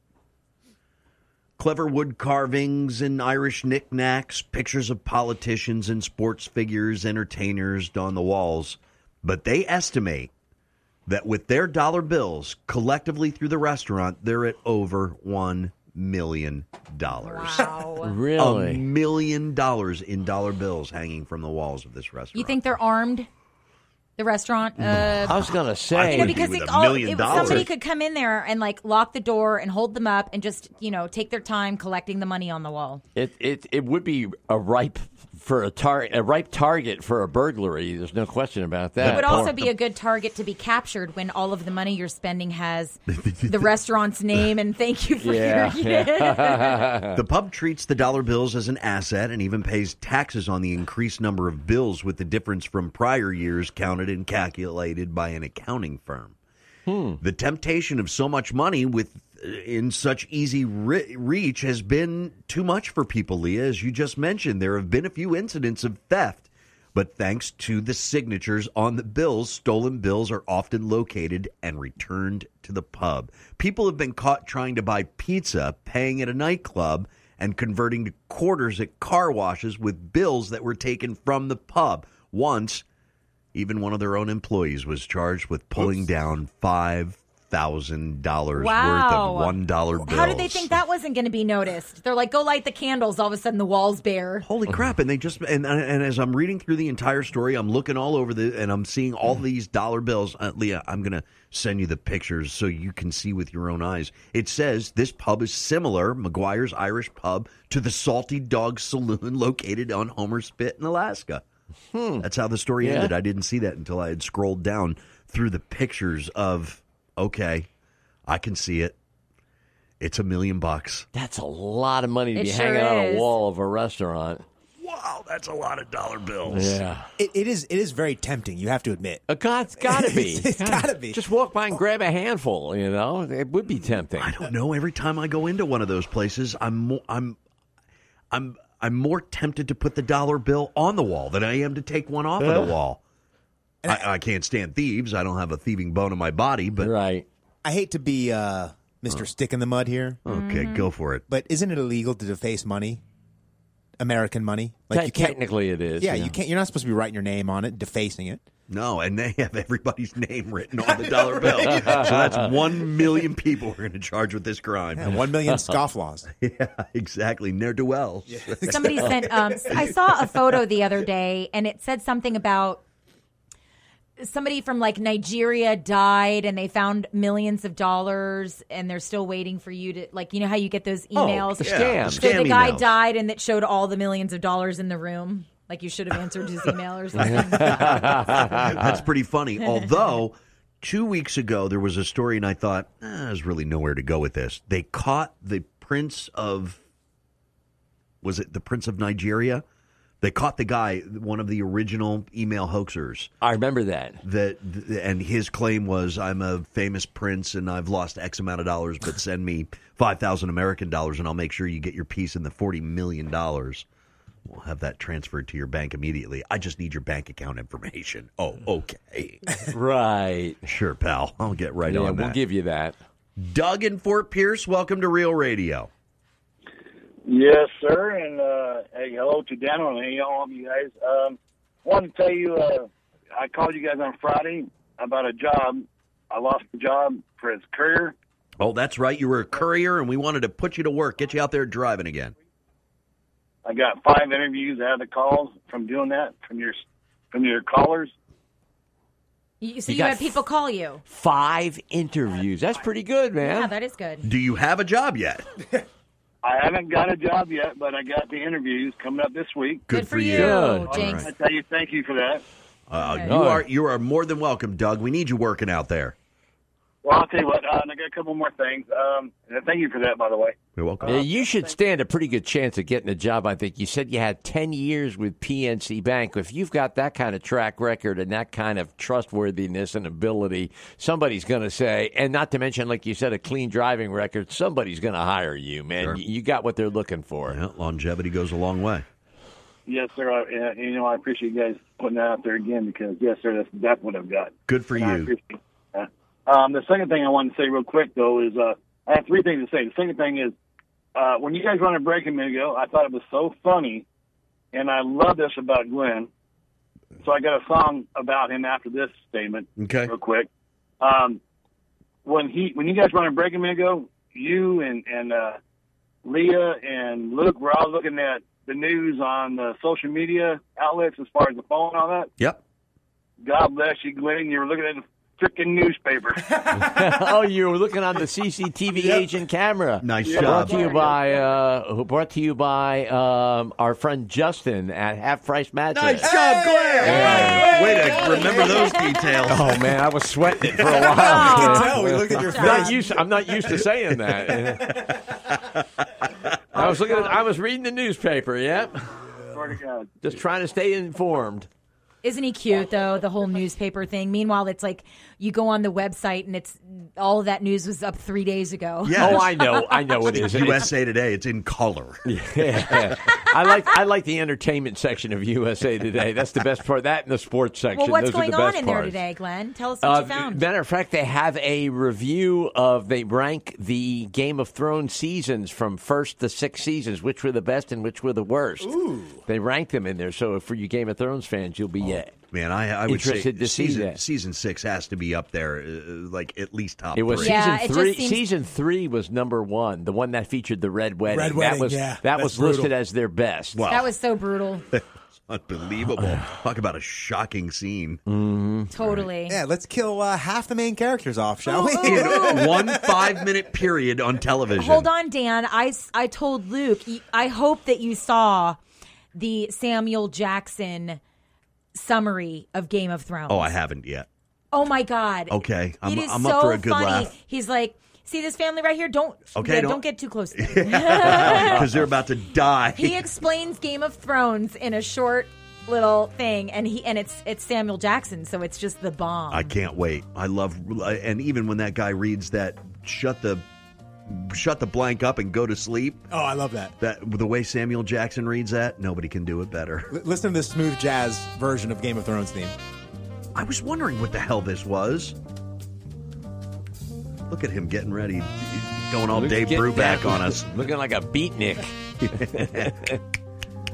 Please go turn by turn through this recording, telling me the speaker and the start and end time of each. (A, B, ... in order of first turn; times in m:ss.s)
0:01.6-0:10.3 A
0:11.1-0:17.7 A
0:17.2-0:18.2 B
0:18.0-0:18.8 C
0:18.4-0:22.6 A
0:22.3-0:23.3 B
0:24.2-0:25.5 B
0:25.2-0:26.4 C
0:25.9-0:27.7 A
0:26.1-0:33.0 B
0:27.3-0:27.7 C
0:33.2-0:39.6 C
0:39.0-0:39.6 A
0:39.0-0:46.9 B
0:43.1-0:43.7 A
0:45.2-0:47.2 C
0:47.2-0:56.4 A
0:56.9-0:57.2 C
0:57.2-1:22.8 A
1:23.5-1:30.8 A
1:28.6-1:34.5 B
1:34.4-1:51.4 A
1:51.9-1:52.3 C
1:52.2-1:57.7 A
1:52.8-1:53.1 C
1:58.3-1:59.0 A
2:00.0-2:01.1 A
2:01.1-2:04.4 C
2:02.4-2:03.3 B
2:04.8-2:06.8 A
2:06.5-2:07.1 C
2:07.2-2:09.2 D
2:09.3-2:14.4 C
2:09.8-2:11.8 D
2:14.2-2:17.4 A
2:18.3-2:23.0 A
2:22.4-2:22.7 C
2:23.8-2:26.9 A
2:26.8-2:27.3 C
2:27.6-2:30.2 D
2:30.2-2:31.2 A
2:30.3-2:30.9 B
2:31.3-2:33.0 D
2:34.0-2:35.4 D
2:34.9-2:36.3 C
2:36.0-2:38.4 D
2:38.7-2:45.2 A
2:40.8-2:42.1 D
2:41.7-2:42.4 C
2:45.0-2:46.3 D
2:46.4-2:49.1 A
2:48.3-2:49.7 D
2:48.7-2:52.8 B
2:54.2-3:08.4 B
3:01.2-3:02.4 C
3:01.6-3:02.9 A
3:07.2-3:09.0 C
3:07.8-3:16.8 A
3:18.2-3:19.6 A
3:20.2-3:23.3 A
3:23.4-3:24.2 C
3:24.2-3:33.9 A
3:34.5-3:39.4 A
3:39.6-3:40.6 C
3:40.7-3:42.4 A
3:41.9-3:43.0 C
3:43.4-3:45.9 A
3:47.2-3:58.2 E
3:58.6-4:02.3 A
4:03.6-4:08.1 E
4:09.6-4:11.0 B
4:09.9-4:10.4 C
4:11.1-4:13.7 C
4:13.4-4:14.3 B
4:14.2-4:15.5 A
4:16.4-4:19.9 E
4:19.9-4:21.3 A
4:19.9-4:21.3 B
4:20.4-4:21.0 C
4:20.9-4:22.4 E
4:22.9-4:26.2 A
4:23.0-4:23.4 B
4:23.3-4:23.7 C
4:27.0-4:31.8 E
4:30.8-4:31.2 A
4:31.1-4:47.6 C
4:47.5-4:49.0 A
4:49.9-5:00.5 E
4:54.7-4:55.3 A
5:01.2-5:04.0 E
5:04.7-5:06.3 E
5:07.2-5:10.5 E
5:09.8-5:10.1 A
5:11.0-5:11.4 E
5:12.2-5:15.6 E
5:16.2-5:22.3 E
5:23.4-5:26.5 E
5:26.7-5:27.0 D
5:26.7-5:36.4 C
5:30.0-5:30.9 A
5:30.2-5:31.3 E
5:35.9-5:39.9 A
5:37.0-5:37.8 C
5:37.0-5:38.8 D
5:37.1-5:39.5 B
5:39.5-5:45.1 C
5:40.9-5:43.1 B
5:41.4-5:43.1 D
5:46.7-5:49.1 C
5:46.8-5:47.3 E
5:49.5-5:50.1 E
5:50.2-5:51.7 C
5:52.2-6:00.3 B
5:59.0-5:59.7 A
5:59.2-6:00.9 C
6:00.3-6:02.2 A
6:02.2-6:09.2 C
6:07.9-6:10.6 B
6:10.0-6:22.4 C
6:18.8-6:19.4 D
6:22.5-6:27.6 A
6:23.1-6:24.2 C
6:27.1-6:33.8 C
6:27.3-6:28.5 B
6:31.3-6:32.9 D
6:33.8-6:34.1 A
6:33.9-6:34.9 B
6:34.9-6:38.2 A
6:38.3-6:38.9 C
6:38.9-6:39.6 B
6:39.0-6:39.3 A
6:39.5-6:43.4 D
6:41.6-6:42.7 B
6:42.0-6:45.1 A
6:44.8-6:48.8 B
6:49.3-6:51.2 B
6:52.0-6:53.7 B
6:53.5-6:54.3 A
6:54.7-7:01.8 B
6:55.5-6:57.3 A
6:59.6-7:03.3 A
7:03.0-7:09.7 B
7:09.5-7:13.6 A
7:14.3-7:16.3 A
7:16.3-7:16.9 D
7:17.0-7:20.1 A
7:20.1-7:22.8 D
7:23.6-7:25.4 A
7:27.5-7:30.7 A
7:29.3-7:31.9 C
7:32.2-7:33.0 A
7:32.8-7:33.2 C